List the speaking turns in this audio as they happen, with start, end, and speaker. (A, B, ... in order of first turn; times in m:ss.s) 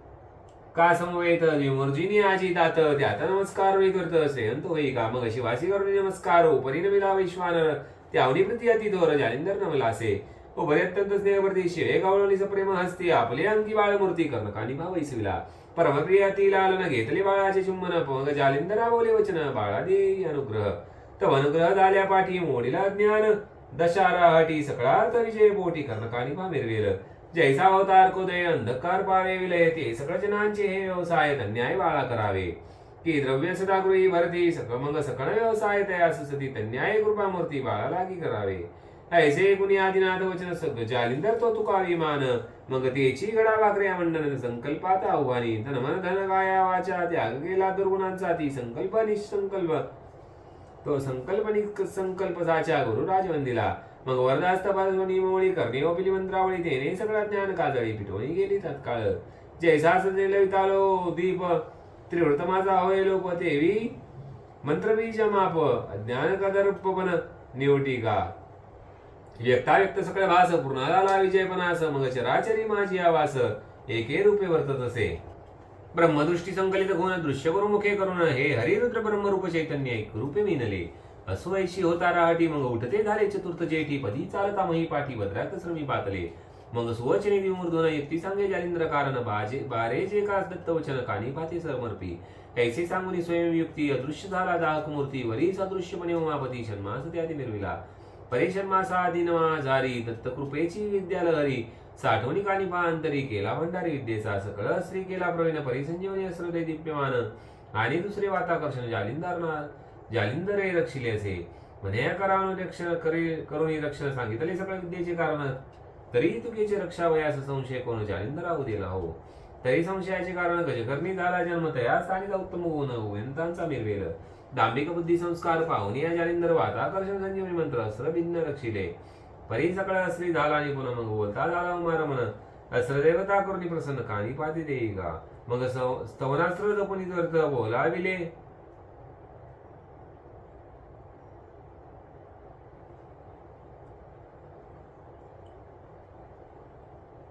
0:00.7-0:49.9 A
0:50.8-1:04.0 A
1:04.6-1:08.3 A
1:09.4-1:15.2 A
1:15.9-1:55.6 A
1:56.1-2:08.9 A
2:09.5-2:18.3 A